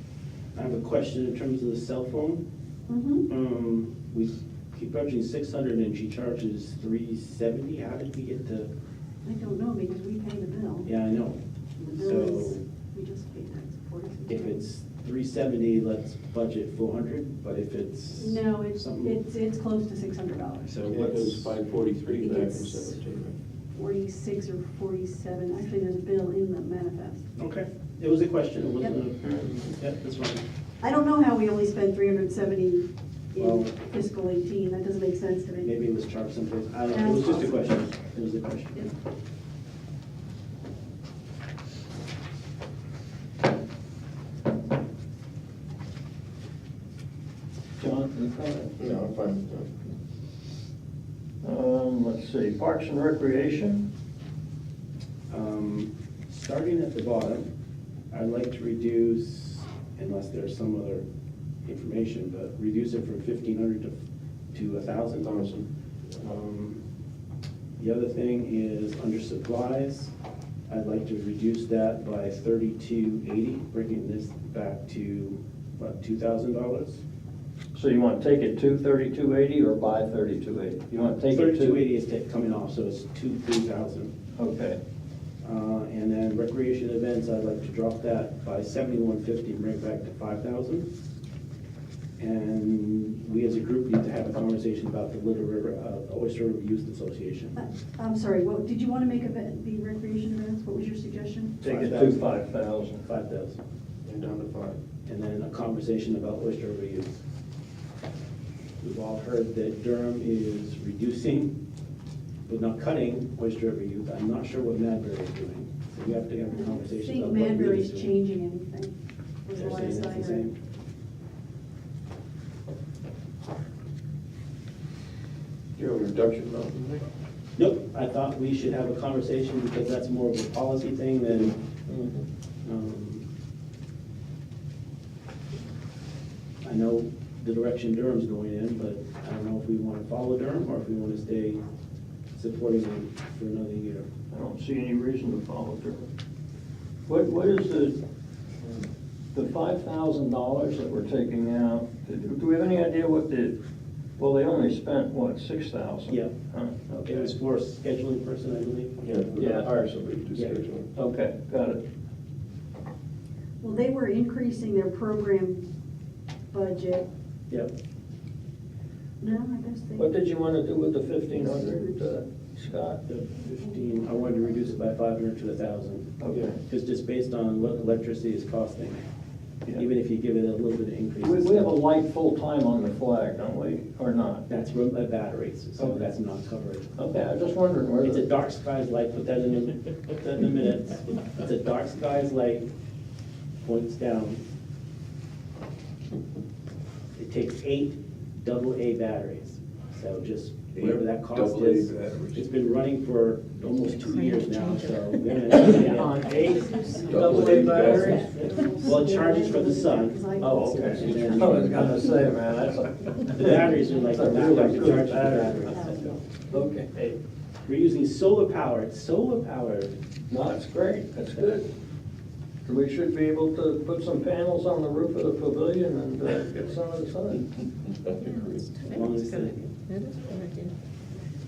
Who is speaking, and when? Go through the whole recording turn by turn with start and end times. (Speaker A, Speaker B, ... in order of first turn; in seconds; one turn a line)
Speaker A: 0.6-2.4
Speaker B: 2.9-3.3
Speaker A: 3.3-8.7
Speaker B: 9.2-10.9
Speaker A: 10.8-11.4
Speaker B: 11.8-14.6
Speaker A: 12.0-12.6
Speaker A: 14.3-19.2
Speaker B: 18.2-20.7
Speaker A: 20.6-21.6
Speaker C: 20.9-23.4
Speaker B: 22.2-23.0
Speaker B: 23.7-27.2
Speaker A: 27.4-30.4
Speaker B: 30.8-35.7
Speaker A: 33.4-33.7
Speaker A: 35.6-38.9
Speaker B: 36.9-37.7
Speaker D: 47.8-48.7
Speaker C: 48.8-49.7
Speaker D: 51.4-53.9
Speaker A: 55.3-57.5
Speaker A: 58.1-61.0
Speaker A: 61.6-64.0
Speaker A: 64.5-65.3
Speaker C: 65.2-65.7
Speaker A: 66.2-66.8
Speaker A: 67.8-70.1
Speaker A: 70.7-77.0
Speaker D: 77.7-81.8
Speaker A: 81.3-84.1
Speaker D: 84.4-84.8
Speaker A: 85.4-90.9
Speaker A: 92.2-97.6
Speaker B: 97.6-101.6
Speaker D: 101.6-103.0
Speaker A: 101.6-102.4
Speaker A: 103.0-103.6
Speaker C: 104.0-104.8
Speaker A: 105.1-107.2
Speaker A: 108.8-111.5
Speaker A: 112.5-118.1
Speaker B: 116.5-118.9
Speaker B: 119.5-120.5
Speaker A: 119.5-120.5
Speaker C: 125.8-127.0
Speaker A: 127.6-131.6
Speaker A: 132.6-133.3
Speaker A: 136.6-141.6
Speaker A: 142.3-144.1
Speaker D: 144.3-146.1
Speaker D: 147.1-148.0
Speaker D: 149.3-153.6
Speaker D: 154.2-157.3
Speaker A: 157.0-159.1
Speaker C: 159.0-160.9
Speaker D: 159.4-159.8
Speaker D: 160.9-161.8
Speaker B: 163.6-165.7
Speaker B: 166.5-167.1
Speaker B: 169.2-170.1
Speaker D: 170.0-173.0
Speaker B: 171.6-171.9
Speaker A: 173.1-179.1
Speaker D: 176.2-176.5
Speaker C: 176.3-176.6
Speaker A: 179.7-181.8
Speaker D: 181.2-184.5
Speaker A: 184.5-186.9
Speaker D: 185.8-186.1
Speaker D: 187.0-188.2
Speaker A: 188.0-192.7
Speaker A: 193.6-194.4
Speaker A: 197.2-206.3
Speaker C: 200.7-202.5
Speaker E: 203.9-209.1
Speaker D: 205.5-208.6
Speaker C: 207.0-208.3
Speaker B: 207.3-211.2
Speaker A: 208.8-212.1
Speaker D: 210.4-217.2
Speaker C: 211.0-212.2
Speaker A: 213.3-216.2
Speaker B: 215.8-216.1
Speaker A: 217.7-220.0
Speaker D: 220.3-221.7
Speaker D: 222.7-227.4
Speaker C: 228.1-228.6
Speaker E: 228.2-230.7
Speaker A: 228.8-229.6